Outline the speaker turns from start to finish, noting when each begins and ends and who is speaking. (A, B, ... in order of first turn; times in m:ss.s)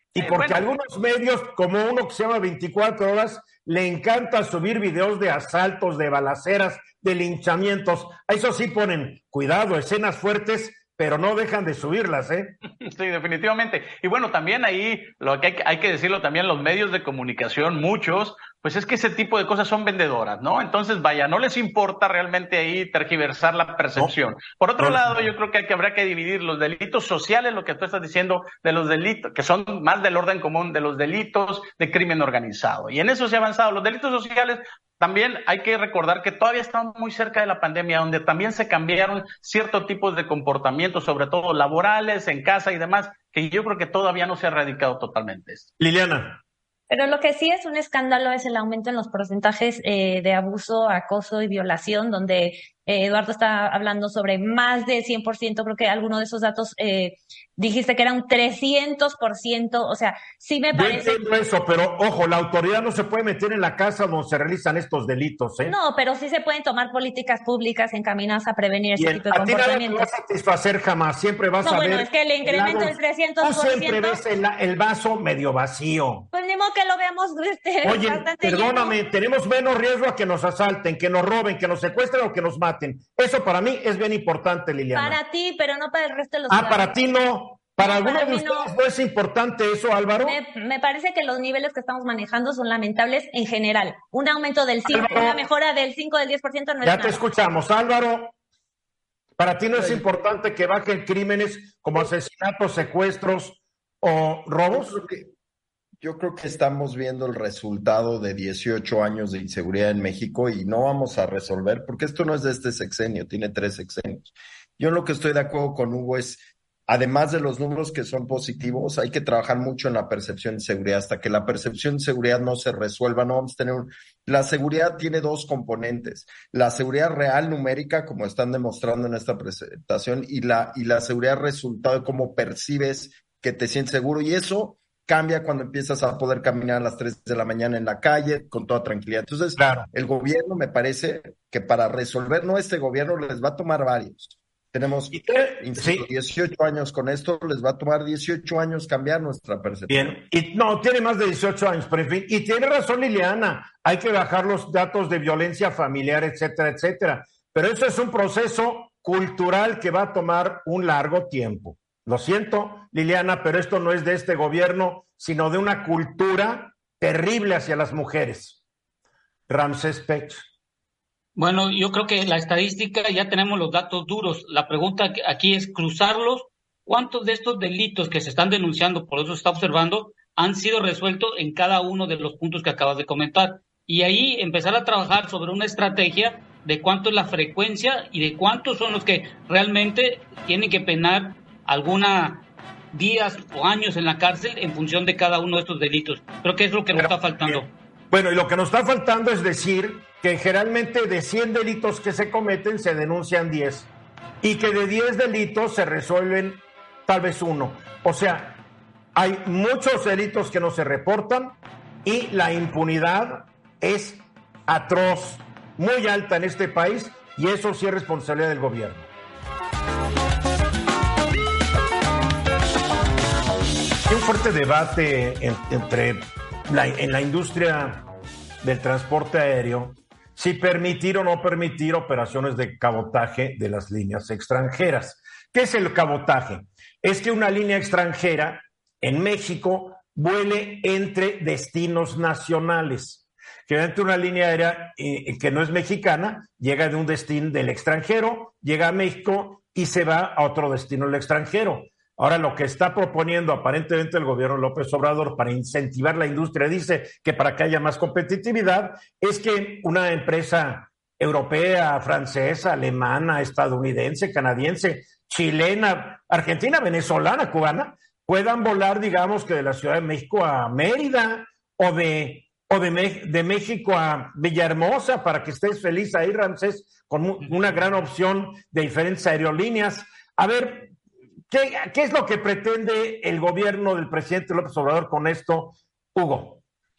0:00.1-0:12.5 A
0:00.2-0:00.7 B
0:12.8-0:45.7 B
0:24.8-0:25.3 A
0:45.8-0:46.4 A
0:46.9-1:01.2 C
1:00.7-1:05.7 A
1:05.6-1:10.1 C
1:09.0-1:16.3 A
1:11.6-1:14.2 C
1:16.3-1:19.0 C
1:17.8-1:25.2 A
1:24.9-1:27.0 C
1:26.5-1:30.4 A
1:27.8-1:28.7 C
1:30.2-1:37.2 C
1:34.9-1:35.4 A
1:36.8-1:38.4 A
1:39.4-1:45.0 A
1:39.7-1:40.1 D
1:44.7-1:45.3 D
1:46.0-2:30.2 D
2:19.6-2:19.9 A
2:25.1-2:26.0 A
2:29.9-2:48.6 A
2:49.5-2:50.4 A
2:51.4-3:17.7 E
3:16.9-3:23.9 A
3:24.4-3:28.6 A
3:29.2-3:39.1 A
3:44.1-3:48.1 A
3:48.6-4:40.9 A
4:41.5-4:46.6 A